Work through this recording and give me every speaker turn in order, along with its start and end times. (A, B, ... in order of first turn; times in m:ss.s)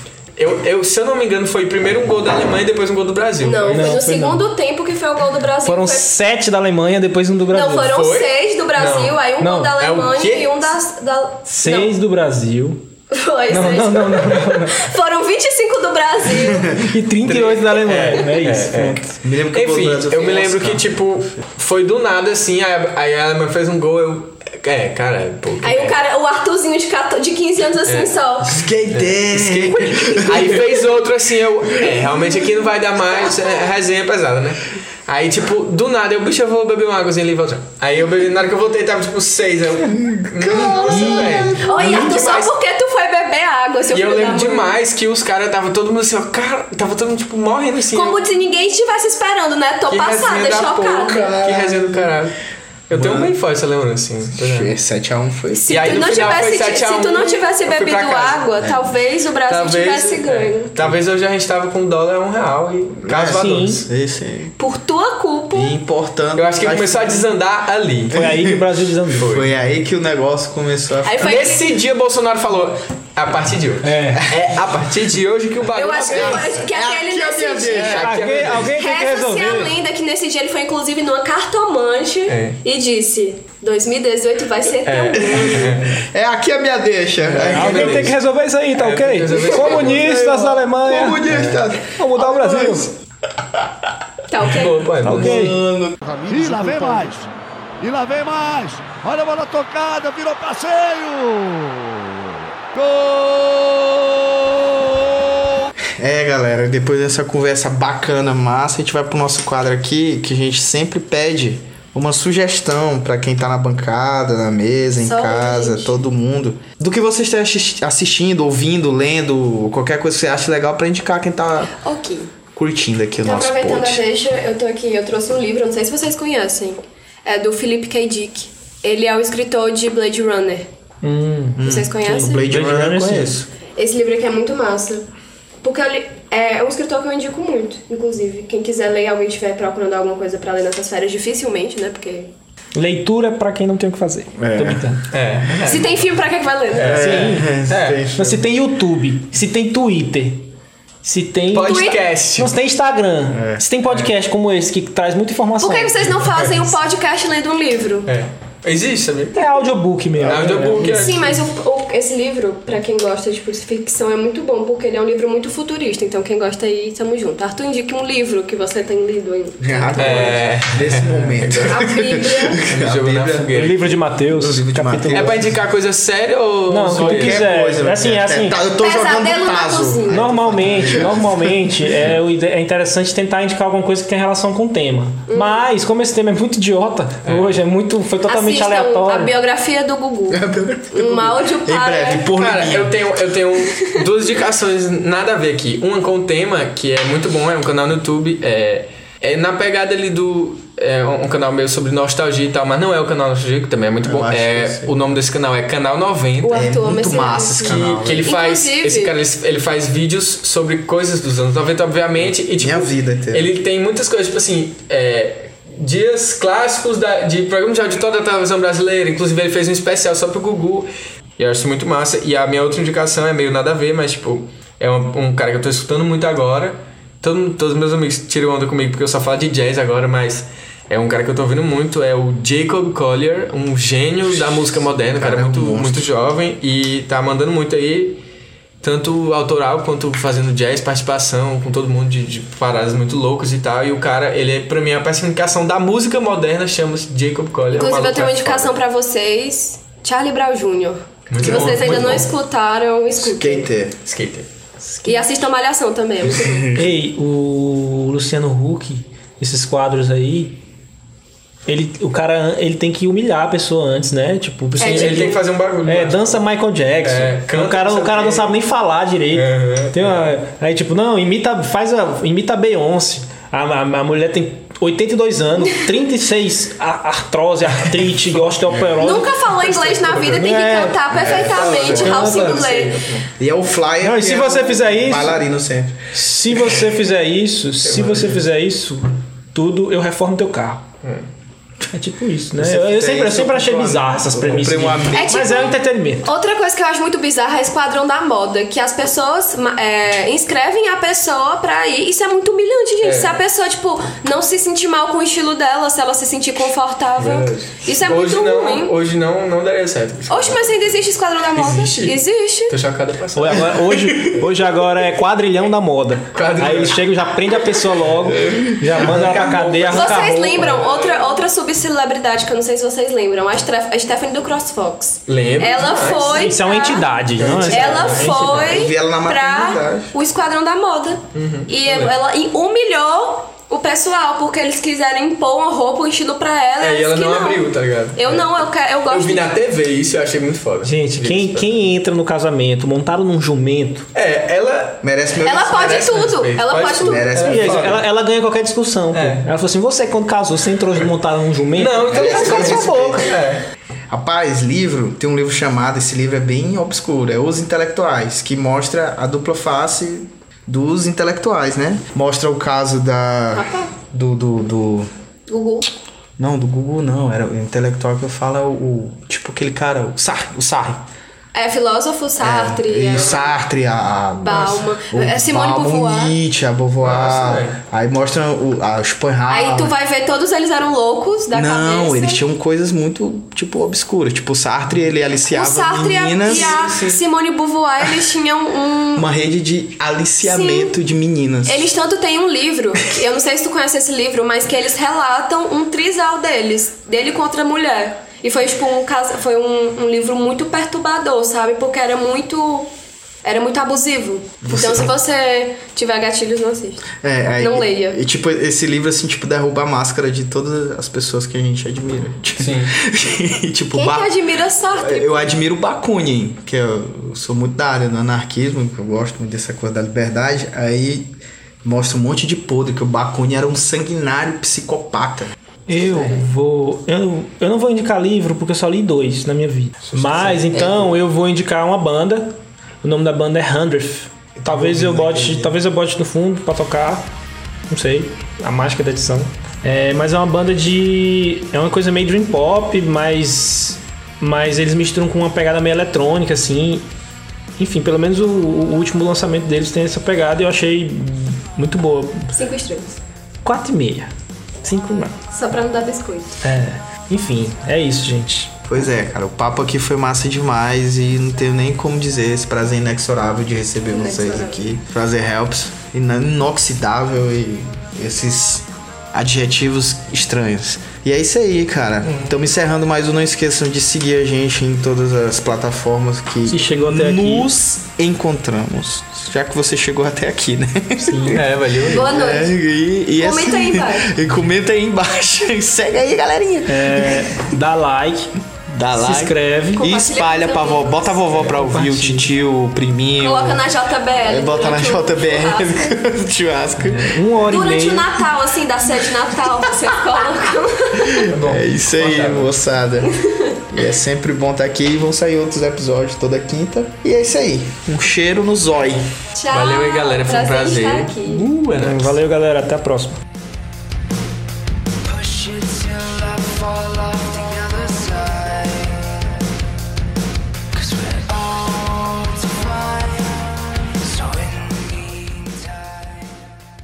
0:00.4-0:04.0 A
0:03.4-0:06.1 B
0:03.7-0:04.5 C
0:05.6-0:08.0 C
0:07.5-0:11.9 B
0:07.8-0:09.2 A
0:09.4-0:09.7 C
0:09.8-0:10.8 A
0:11.5-0:12.9 C
0:13.1-0:16.8 B
0:13.5-0:14.8 C
0:16.4-0:16.7 D
0:16.8-0:19.1 C
0:17.3-0:26.0 A
0:17.9-0:18.2 B
0:19.2-0:21.0 D
0:25.6-0:28.6 B
0:27.8-0:28.1 A
0:28.5-0:30.7 D
0:28.9-0:42.5 A
0:39.9-0:41.7 D
0:40.5-0:44.8 B
0:43.9-0:48.2 A
0:47.9-0:51.4 B
0:49.9-0:52.4 A
0:51.1-0:52.1 D
0:52.9-0:54.7 A
0:52.9-0:53.4 D
0:54.4-0:56.0 D
0:55.5-1:00.8 B
0:55.7-0:58.5 A
0:59.5-1:03.9 A
1:03.0-1:04.6 D
1:03.3-1:03.9 C
1:04.6-1:05.8 B
1:05.5-1:07.2 D
1:06.4-1:08.2 A
1:08.1-1:09.3 C
1:08.1-1:08.7 D
1:09.2-1:09.5 A
1:09.2-1:11.3 D
1:11.0-1:11.7 B
1:11.2-1:16.6 A
1:13.8-1:14.3 C
1:14.1-1:14.6 D
1:15.8-1:25.7 B
1:16.1-1:18.5 D
1:17.7-1:18.8 A
1:17.8-1:19.7 C
1:22.3-1:22.6 A
1:24.8-1:26.0 A
1:25.2-1:28.2 D
1:27.2-1:28.2 A
1:27.4-1:32.9 C
1:28.8-1:30.6 A
1:30.8-1:32.9 D
1:31.3-1:31.6 A
1:34.3-1:34.8 B
1:34.4-1:35.4 A
1:35.0-1:35.6 C
1:35.1-1:37.1 D
1:36.0-1:37.3 E
1:37.8-1:41.7 E
1:42.7-1:44.0 E
1:46.0-2:01.7 D
1:55.0-1:55.9 B
2:01.8-2:02.3 B
2:02.6-2:04.0 D
2:03.2-2:10.7 B
2:11.0-2:13.4 C
2:11.6-2:13.5 D
2:11.6-2:12.5 B
2:13.8-2:15.1 B
2:15.6-2:22.3 B
2:22.8-2:25.0 C
2:24.4-2:24.8 D
2:25.1-2:26.1 A
2:25.6-2:27.1 B
2:26.7-2:28.1 A
2:26.8-2:28.4 D
2:26.9-2:27.6 C
2:28.1-2:30.5 C
2:31.0-2:36.4 C
2:31.5-2:32.5 A
2:31.6-2:32.0 B
2:33.3-2:33.6 D
2:35.6-2:38.1 B
2:36.2-2:36.6 A
2:38.1-2:39.4 A
2:39.4-2:41.0 C
2:40.2-2:40.8 D
2:40.2-2:41.4 A
2:40.8-2:50.4 B
2:49.6-2:53.6 D
2:50.0-2:51.8 A
2:51.6-2:52.6 B
2:52.6-2:54.0 A
2:53.6-2:55.4 C
2:54.3-2:55.6 D
2:55.1-2:57.5 A
2:56.7-2:58.6 C
2:56.9-3:01.9 D
2:58.5-3:00.5 B
3:00.1-3:09.3 C
3:05.3-3:05.6 B
3:07.2-3:07.6 A
3:08.3-3:10.4 B
3:10.3-3:13.2 D
3:10.9-3:12.2 B
3:12.3-3:26.7 A
3:13.7-3:14.0 B
3:24.0-3:25.0 D
3:26.4-3:29.1 B
3:26.5-3:28.3 D
3:27.6-3:58.2 A
3:32.5-3:33.5 D
3:55.0-3:56.1 D
3:58.8-4:08.8 A
4:07.7-4:13.7 B
4:11.3-4:12.3 A
4:11.4-4:12.2 D
4:13.2-4:14.0 D
4:14.0-4:15.2 A
4:15.0-4:16.7 B
4:16.2-4:16.9 D
4:16.8-4:20.6 C
4:21.7-4:39.4 C
4:24.8-4:25.4 B
4:24.8-4:26.4 A
4:27.0-4:28.6 A
4:29.3-4:30.3 A
4:39.0-4:43.0 B
4:39.6-4:40.6 A
4:40.2-4:41.2 C
4:41.1-4:43.3 A
4:41.2-4:42.3 D
4:41.9-4:42.6 C
4:43.4-4:46.0 D
4:44.0-4:45.4 C
4:46.1-4:50.8 C
4:47.8-4:48.4 A
4:51.9-4:56.3 C
4:52.6-4:55.7 D
4:55.1-5:08.9 B
5:03.0-5:03.4 A
5:07.2-5:11.0 A
5:10.3-5:12.8 B
5:11.5-5:13.8 A
5:13.4-5:20.6 C
5:14.0-5:14.4 D
5:16.3-5:17.0 A
5:18.2-5:21.4 A
5:19.9-5:27.2 B
5:25.3-5:26.5 A
5:26.3-5:28.8 C
5:27.4-5:30.1 D
5:27.4-5:28.4 A
5:27.7-5:39.5 B
5:31.3-5:32.1 A
5:36.8-5:38.6 A
5:39.1-5:41.8 A
5:40.8-5:44.1 C
5:44.1-5:45.0 A
5:45.0-5:46.2 D
5:45.4-5:47.3 B
5:45.7-5:48.0 A
5:46.9-5:48.0 D
5:47.4-5:53.3 C
5:49.1-5:49.5 A
5:51.8-5:53.6 A
5:52.1-5:53.3 D
5:54.1-6:05.1 D
6:03.5-6:03.9 B
6:05.5-6:05.9 B
6:06.4-6:11.0 D
6:11.5-6:13.5 B
6:12.4-6:19.9 D
6:13.1-6:13.5 A
6:14.4-6:16.3 B
6:17.0-6:17.8 A
6:19.5-6:22.4 B
6:21.5-6:26.8 D
6:25.5-6:29.3 B
6:26.4-6:27.2 A
6:29.2-6:31.9 D
6:30.4-6:31.0 B
6:31.7-6:42.9 B
6:43.4-6:47.1 B
6:44.6-6:45.2 D
6:47.2-7:05.6 D
6:47.6-6:48.2 B
6:52.6-6:52.9 A
6:53.9-6:55.5 B
7:05.9-7:17.3 C
7:10.1-7:11.1 D
7:14.6-7:15.8 D
7:17.9-7:27.1 C
7:27.8-7:32.5 C
7:32.5-7:33.2 B
7:33.6-7:34.3 C
7:34.8-7:35.4 C
7:35.5-7:36.6 B
7:36.6-7:38.7 C
7:38.8-8:07.7 D
7:44.1-7:44.8 B
7:52.2-7:52.5 A
7:56.7-7:57.7 C
8:01.2-8:01.6 C
8:01.5-8:02.3 A
8:02.1-8:02.7 B
8:03.4-8:04.3 B
8:06.9-8:08.5 C
8:08.9-8:13.8 D
8:09.2-8:10.1 C
8:10.0-8:11.4 B
8:11.6-8:12.5 C
8:13.4-8:16.2 B
8:14.4-8:17.4 D
8:17.0-8:18.3 C
8:17.6-8:21.5 B
8:21.3-8:23.3 D
8:21.5-8:22.7 A
8:23.3-8:23.7 B
8:23.9-8:29.3 D
8:29.6-8:31.7 B
8:29.7-8:32.4 A
8:32.0-8:33.4 C
8:35.2-8:39.4 F
8:41.0-8:46.7 F